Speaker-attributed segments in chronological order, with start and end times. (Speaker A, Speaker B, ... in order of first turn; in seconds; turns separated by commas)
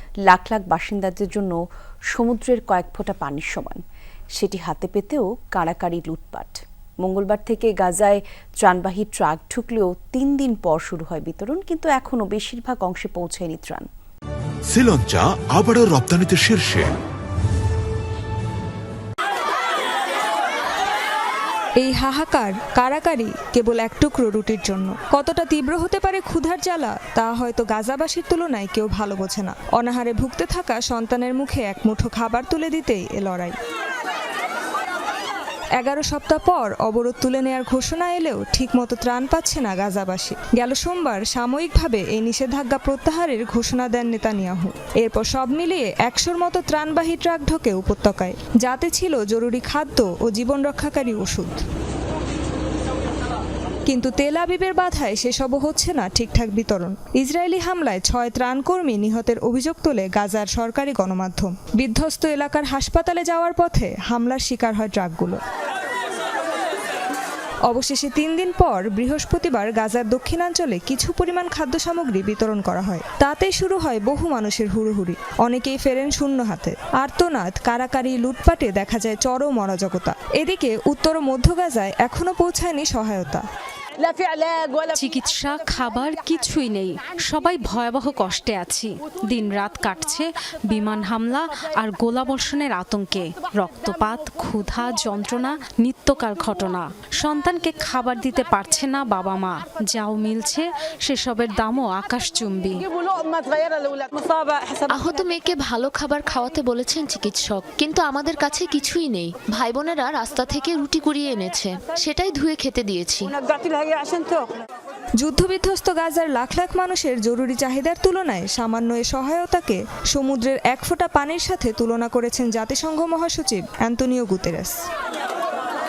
Speaker A: 0.3-1.6, Speaker A: 2.1-3.8, Speaker A: 4.4-13.9, Speaker B: 14.7-16.9, Speaker C: 21.8-33.6, Speaker C: 35.8-51.6, Speaker C: 53.9-65.4, Speaker C: 67.7-83.5, Speaker D: 84.9-102.9, Speaker E: 104.9-113.3, Speaker C: 115.2-124.8